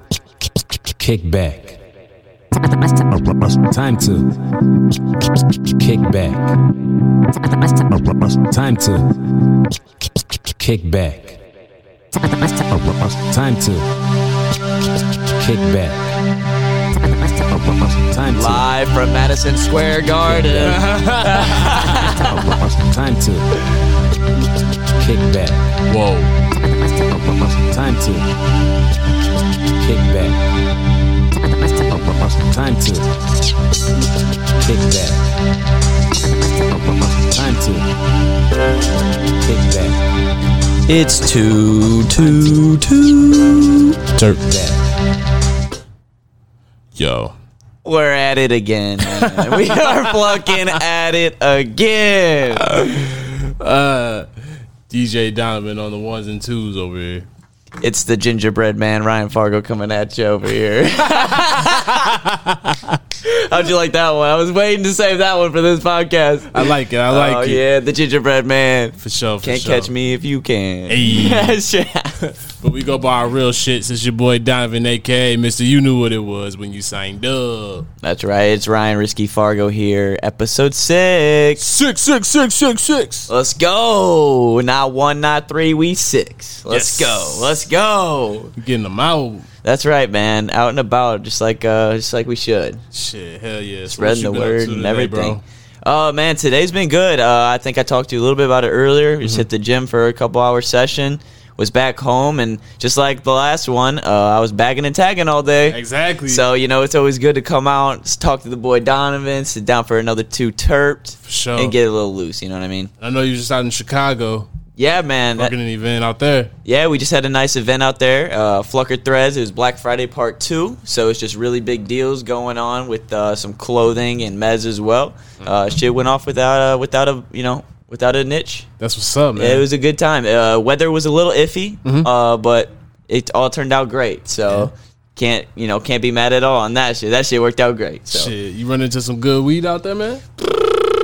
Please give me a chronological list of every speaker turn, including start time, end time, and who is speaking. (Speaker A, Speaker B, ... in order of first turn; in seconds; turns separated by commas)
Speaker A: 0.6-1.8, Speaker A: 2.6-4.3, Speaker A: 5.2-6.6, Speaker A: 7.4-11.4, Speaker A: 12.2-13.9, Speaker A: 15.2-16.0, Speaker A: 17.0-18.6, Speaker B: 18.3-22.5, Speaker A: 20.4-20.8, Speaker C: 20.5-22.2, Speaker A: 22.1-23.6, Speaker A: 24.8-25.7, Speaker C: 25.9-26.3, Speaker A: 26.6-28.3, Speaker A: 29.7-30.4, Speaker A: 31.6-33.2, Speaker A: 34.5-35.3, Speaker A: 36.3-37.9, Speaker A: 39.4-40.0, Speaker B: 40.9-44.0, Speaker A: 42.2-42.7, Speaker A: 44.3-44.9, Speaker C: 46.9-47.3, Speaker B: 47.8-52.8, Speaker C: 49.0-50.8, Speaker C: 52.6-57.3, Speaker B: 57.8-62.2, Speaker C: 61.3-63.0, Speaker B: 63.2-72.2, Speaker C: 66.5-67.6, Speaker C: 69.0-69.9, Speaker C: 70.9-71.6, Speaker C: 72.2-77.9, Speaker B: 78.0-81.7, Speaker C: 81.6-83.3, Speaker B: 83.3-88.5, Speaker C: 86.7-87.6, Speaker C: 88.6-89.5, Speaker B: 89.6-92.8, Speaker C: 92.9-95.4, Speaker B: 93.9-112.9, Speaker C: 105.7-106.4, Speaker C: 111.2-111.8, Speaker C: 113.0-114.5, Speaker B: 114.8-115.5, Speaker C: 115.4-116.5, Speaker B: 116.6-128.7, Speaker C: 128.8-129.7, Speaker B: 129.3-138.3, Speaker C: 138.1-140.2